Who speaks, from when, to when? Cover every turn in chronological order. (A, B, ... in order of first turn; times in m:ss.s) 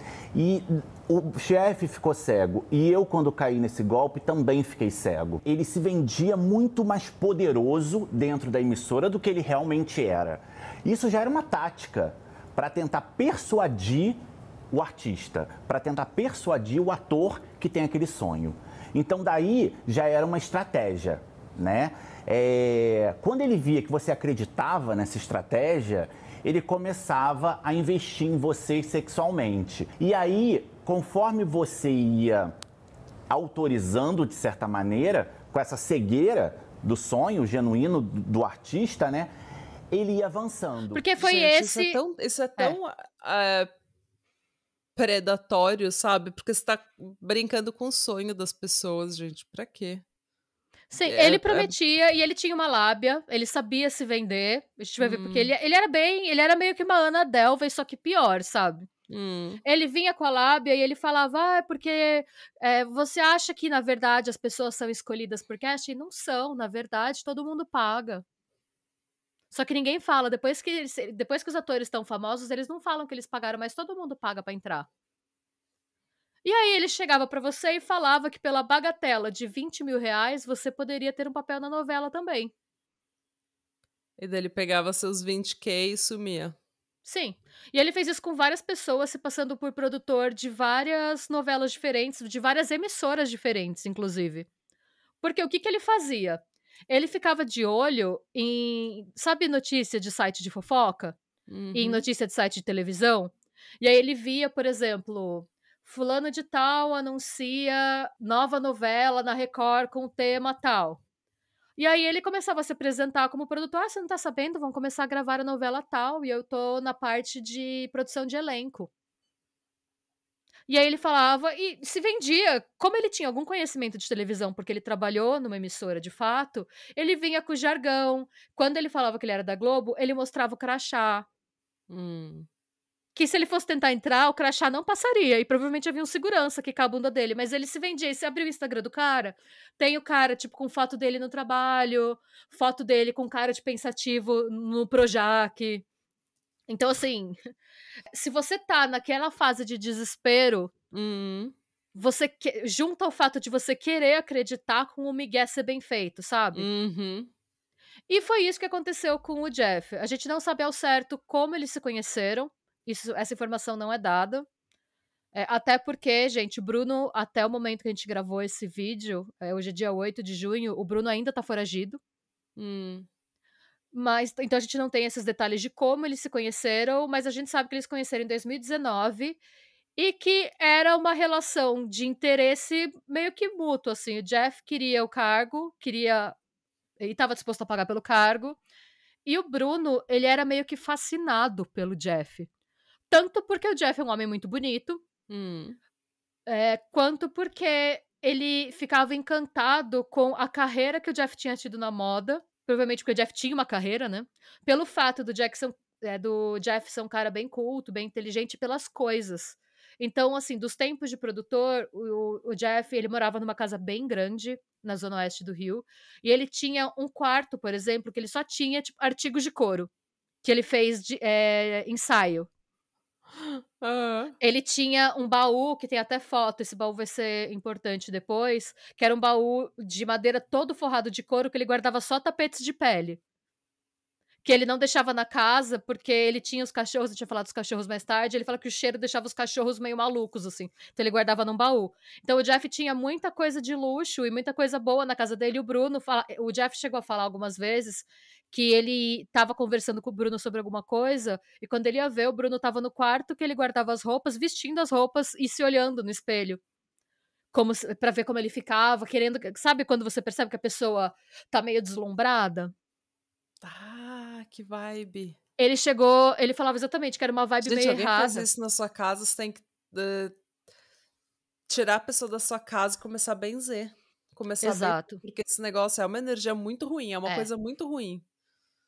0:00.3-0:14.2 A
0:14.7-0:32.5 A
0:33.3-0:39.3 A
0:39.9-0:41.0 A
0:40.9-0:42.0 B
0:41.2-0:43.7 C
0:45.0-0:50.0 C
0:50.9-0:58.9 B
0:51.0-0:51.7 C
0:55.0-0:55.5 C
0:59.1-0:59.6 C
0:59.6-1:08.2 B
1:09.5-1:14.9 B
1:16.4-1:22.5 B
1:24.2-1:26.6 C
1:27.0-1:34.5 B
1:35.2-1:41.2 B
1:41.5-1:42.0 C
1:41.7-1:51.0 B
1:51.8-1:58.9 B
2:00.7-2:11.3 B
2:11.9-2:12.5 C
2:13.2-2:25.8 B
2:26.7-2:27.4 B
2:28.1-2:30.7 B
2:30.9-2:31.5 C
2:31.9-2:36.7 B
2:36.6-2:37.3 C
2:38.1-2:44.5 B
2:45.3-2:52.0 B
2:52.6-2:53.1 C
2:53.9-2:59.4 B
3:00.0-3:06.4 B
3:07.0-3:08.6 B
3:09.3-3:12.5 B
3:13.1-3:15.0 B
3:15.3-3:15.8 C
3:16.5-3:39.9 B
3:40.4-3:42.5 B
3:43.4-3:44.4 C
3:44.4-3:53.2 B
3:54.4-4:16.6 B
4:17.5-4:22.7 B
4:23.6-4:25.4 C
4:25.6-4:28.5 B
4:27.6-4:30.3 C
4:31.7-4:38.2 C
4:34.6-4:35.2 B